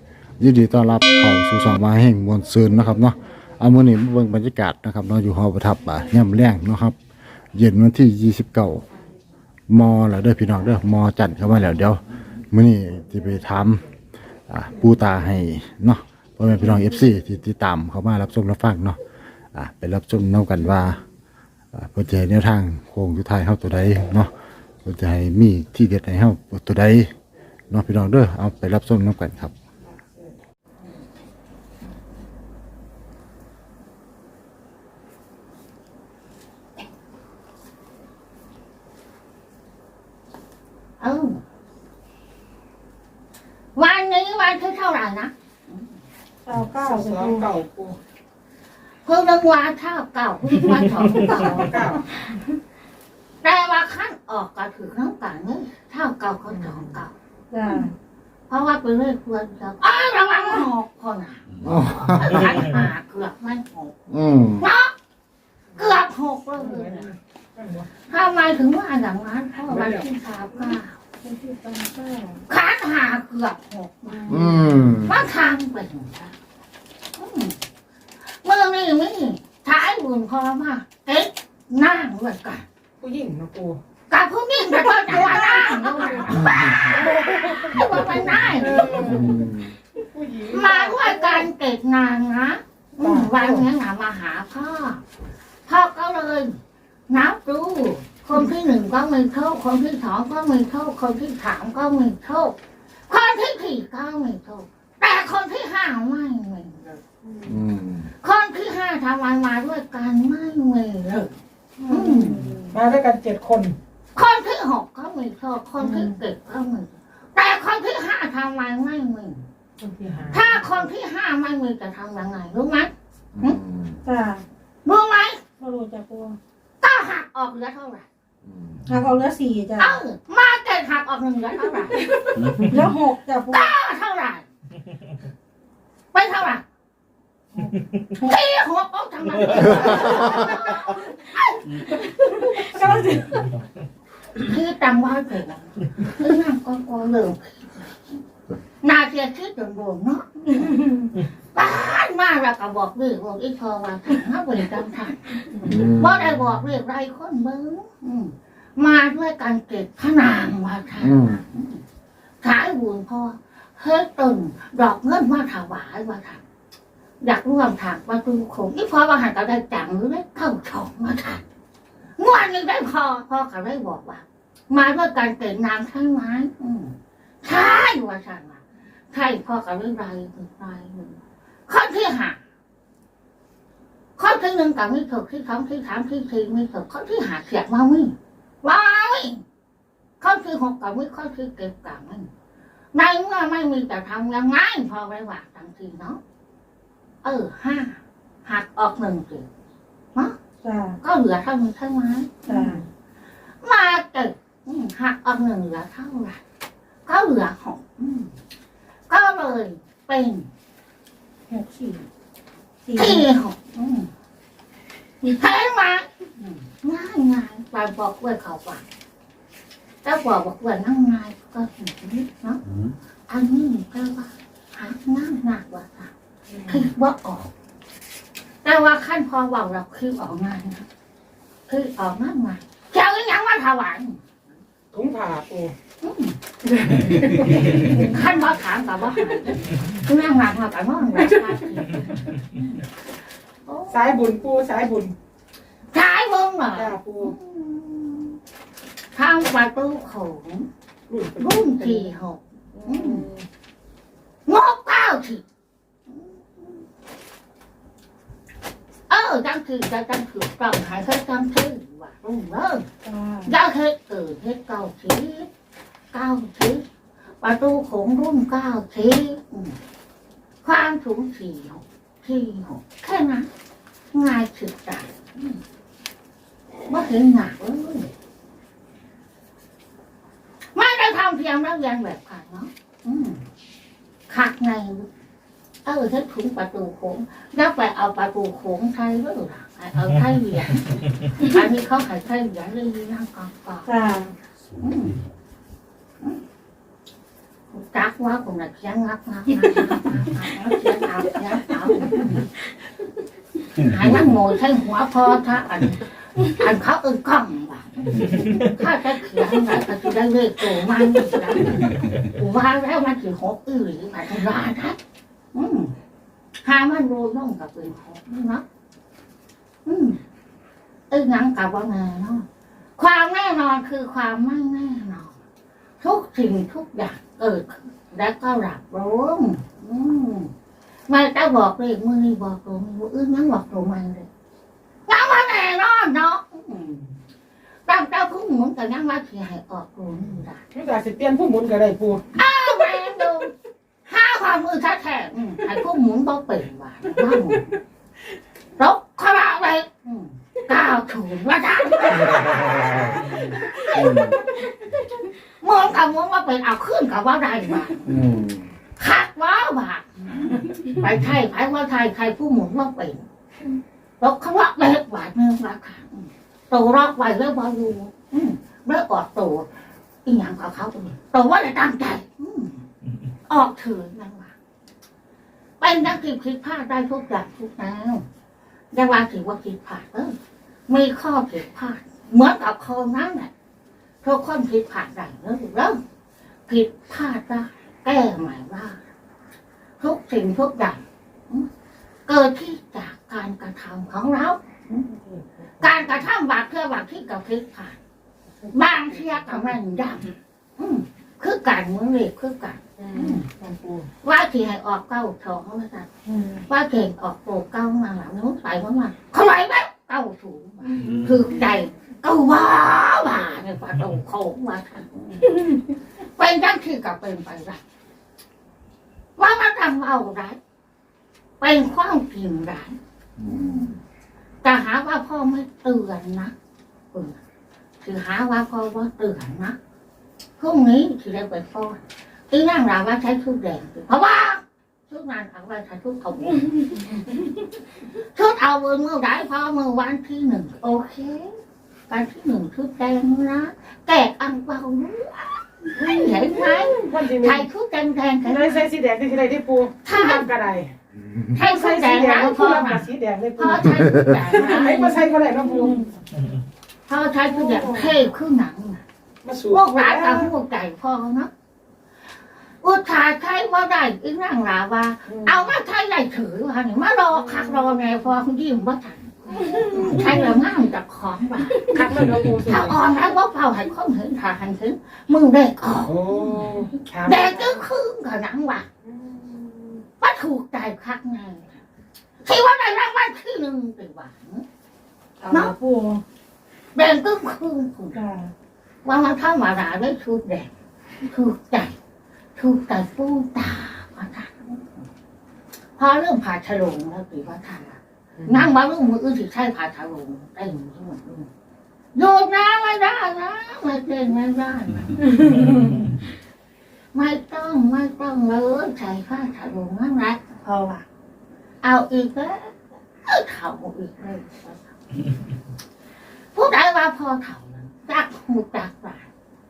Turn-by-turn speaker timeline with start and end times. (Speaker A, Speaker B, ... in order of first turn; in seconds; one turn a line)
Speaker A: 0.4-7.0
Speaker A: 7.5-8.8
Speaker A: 9.7-13.8
Speaker A: 14.5-19.0
Speaker A: 19.5-21.0
Speaker A: 21.7-24.3
Speaker A: 24.9-27.1
Speaker A: 27.7-29.5
Speaker B: 41.0-41.4
Speaker B: 43.8-45.8
Speaker C: 46.5-47.5
Speaker D: 46.8-48.0
Speaker B: 49.0-52.0
Speaker D: 51.5-52.0
Speaker B: 53.4-57.1
Speaker D: 56.5-56.8
Speaker C: 57.5-57.9
Speaker B: 58.5-64.9
Speaker A: 61.6-62.3
Speaker A: 64.1-64.7
Speaker B: 65.8-67.1
Speaker D: 66.6-67.9
Speaker B: 68.1-71.0
Speaker D: 69.7-70.1
Speaker C: 71.2-72.4
Speaker B: 72.5-76.3
Speaker C: 74.1-74.8
Speaker A: 74.3-75.2
Speaker B: 77.2-77.6
Speaker B: 78.4-82.6
Speaker D: 83.0-83.8
Speaker B: 84.1-89.3
Speaker C: 85.1-86.8
Speaker D: 85.1-85.8
Speaker D: 86.8-87.8
Speaker D: 88.6-91.5
Speaker A: 89.1-89.6
Speaker B: 90.5-95.0
Speaker D: 93.0-93.6
Speaker B: 95.7-96.5
Speaker B: 97.1-102.6
Speaker B: 103.1-107.0
Speaker C: 107.2-107.6
Speaker A: 107.5-108.1
Speaker B: 108.2-112.5
Speaker C: 111.9-112.8
Speaker D: 112.7-113.8
Speaker B: 114.2-119.4
Speaker C: 115.8-116.1
Speaker D: 119.8-120.5
Speaker B: 120.3-123.6
Speaker A: 123.3-124.0
Speaker C: 124.0-124.4
Speaker B: 124.8-125.4
Speaker C: 125.6-126.4
Speaker B: 126.8-128.1
Speaker A: 128.5-128.8
Speaker C: 128.9-130.0
Speaker B: 129.8-132.1
Speaker C: 132.1-133.7
Speaker B: 133.5-134.4
Speaker B: 136.1-136.6
Speaker B: 138.1-141.8
Speaker C: 142.1-143.5
Speaker B: 144.4-148.1
Speaker B: 148.8-161.8
Speaker A: 155.6-156.1
Speaker A: 161.0-161.4
Speaker B: 162.4-166.4
Speaker B: 167.2-171.4
Speaker B: 172.2-182.4
Speaker B: 184.2-189.4
Speaker B: 190.2-192.3
Speaker B: 192.9-196.2
Speaker B: 197.2-199.5
Speaker C: 200.6-201.0
Speaker B: 201.0-202.8
Speaker C: 202.5-202.8
Speaker B: 203.6-206.4
Speaker B: 207.1-208.3
Speaker B: 209.1-210.5
Speaker C: 211.5-212.1
Speaker C: 212.8-213.3
Speaker B: 212.9-214.1
Speaker B: 215.2-218.8
Speaker B: 220.0-222.6
Speaker B: 223.3-226.1
Speaker C: 226.5-226.8
Speaker B: 226.7-227.5
Speaker B: 228.6-230.9
Speaker B: 231.7-234.2
Speaker D: 234.9-235.7
Speaker B: 236.0-236.4
Speaker D: 236.7-237.8
Speaker B: 237.7-242.9
Speaker B: 243.7-244.2
Speaker D: 243.9-245.1
Speaker B: 245.9-248.4
Speaker D: 246.7-247.3
Speaker B: 249.1-250.7
Speaker D: 251.1-252.1
Speaker B: 251.4-253.3
Speaker D: 252.8-253.5
Speaker B: 254.5-255.4
Speaker B: 256.1-256.8
Speaker B: 259.1-262.9
Speaker C: 263.0-263.5
Speaker B: 263.5-265.5
Speaker B: 266.1-266.8
Speaker B: 267.4-269.8
Speaker B: 270.6-273.5
Speaker B: 274.1-275.6
Speaker B: 276.9-278.1
Speaker B: 280.7-283.4
Speaker B: 284.3-285.1
Speaker B: 285.9-293.9
Speaker C: 293.9-294.3
Speaker B: 294.8-295.2
Speaker B: 297.7-302.5
Speaker B: 303.8-315.0
Speaker B: 315.5-315.9
Speaker B: 316.6-318.6
Speaker B: 319.9-320.2
Speaker B: 321.1-322.4
Speaker B: 323.0-325.3
Speaker B: 326.0-330.5
Speaker B: 331.1-334.3
Speaker B: 335.1-337.1
Speaker B: 337.9-340.6
Speaker D: 340.7-342.2
Speaker B: 342.3-343.5
Speaker B: 344.1-347.8
Speaker B: 348.8-354.3
Speaker A: 354.0-354.4
Speaker B: 355.6-358.1
Speaker A: 358.1-358.6
Speaker B: 359.0-363.2
Speaker B: 364.2-369.7
Speaker B: 370.2-372.8
Speaker B: 373.5-374.5
Speaker B: 375.8-378.2
Speaker B: 378.9-380.4
Speaker B: 380.9-383.5
Speaker B: 384.2-386.0
Speaker B: 386.7-389.0
Speaker B: 390.0-391.7
Speaker B: 392.3-395.1
Speaker C: 395.1-395.9
Speaker B: 395.8-398.0
Speaker B: 398.7-403.5
Speaker D: 403.0-404.1
Speaker B: 404.2-406.1
Speaker C: 406.3-406.6
Speaker B: 406.7-417.8
Speaker D: 410.9-411.3
Speaker B: 419.4-420.6
Speaker B: 421.6-424.0
Speaker B: 424.6-426.5
Speaker B: 427.1-427.4
Speaker B: 428.0-429.8
Speaker B: 430.6-437.5
Speaker B: 438.3-441.5
Speaker B: 442.1-448.8
Speaker D: 446.5-447.7
Speaker D: 448.4-450.9
Speaker B: 450.1-450.5
Speaker B: 451.5-455.2
Speaker D: 451.6-456.0
Speaker C: 455.6-456.1
Speaker B: 457.1-459.0
Speaker D: 457.5-458.1
Speaker D: 459.4-460.5
Speaker B: 459.7-461.5
Speaker B: 462.8-476.4
Speaker D: 465.3-465.6
Speaker D: 469.7-470.2
Speaker D: 471.9-473.0
Speaker D: 476.1-477.8
Speaker B: 477.3-478.9
Speaker D: 479.1-480.0
Speaker B: 480.2-481.8
Speaker B: 482.4-484.6
Speaker B: 485.4-485.7
Speaker C: 485.5-486.2
Speaker B: 486.9-488.2
Speaker C: 488.1-488.5
Speaker B: 489.1-490.7
Speaker B: 491.2-491.9
Speaker B: 492.6-495.0
Speaker B: 496.0-501.5
Speaker B: 502.1-505.2
Speaker B: 507.1-510.9
Speaker C: 510.7-511.0
Speaker B: 511.8-514.8
Speaker B: 516.5-519.3